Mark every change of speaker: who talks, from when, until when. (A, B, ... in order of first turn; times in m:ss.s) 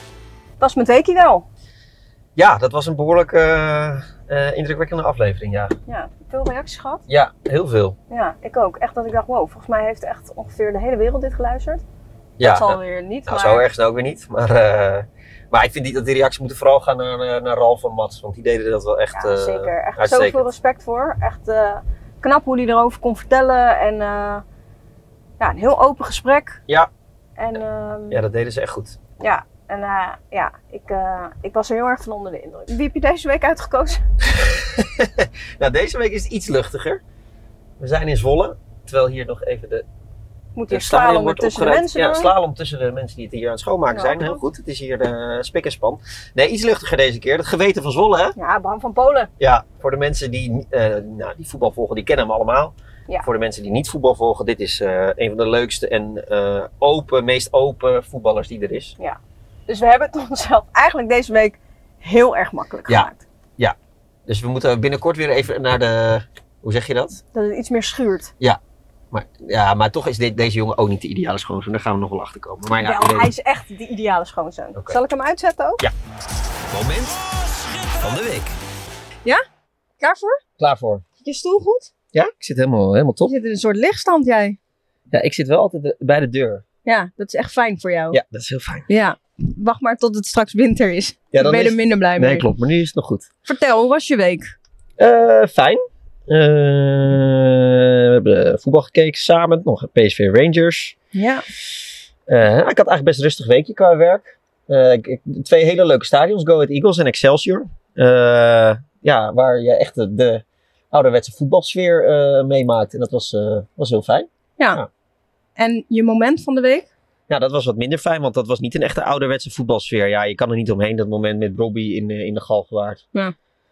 0:00.6-0:01.4 A
0:02.4-0:05.7 B
0:05.9-0:07.0 A
0:07.1-0:08.0 B
0:08.1-0:11.8 A
0:12.4-0:20.4 B
0:12.4-0:13.6 A
0:19.2-0:24.4 A
0:25.4-0:26.6 A
0:27.4-0:28.2 A
0:28.1-0:29.0 B
0:29.2-0:34.0 A
0:34.3-0:37.0 B
0:37.8-0:39.8 B
0:40.6-0:42.3 A
0:40.7-0:48.4 B
0:43.9-0:44.4 A
0:48.4-0:49.3 A
0:49.4-0:58.9 B
0:59.0-1:03.2 A
1:02.9-1:03.8 B
1:04.3-1:07.2 B
1:07.3-1:08.3 A
1:09.1-1:13.3 B
1:12.7-1:15.8 A
1:16.7-1:17.2 B
1:17.9-1:18.5 B
1:20.0-1:20.4 A
1:20.6-1:21.0 B
1:21.2-1:21.9 A
1:22.1-1:23.3 B
1:23.3-1:24.6 A
1:25.1-1:26.6 B
1:26.8-1:28.2 A
1:28.1-1:28.9 B
1:28.9-1:32.4 A
1:31.3-1:33.3 B
1:33.4-1:34.5 A
1:35.0-1:40.9 B
1:41.1-1:41.4 A
1:42.3-1:54.9 B
1:55.6-1:56.9 A
1:57.3-2:03.0 B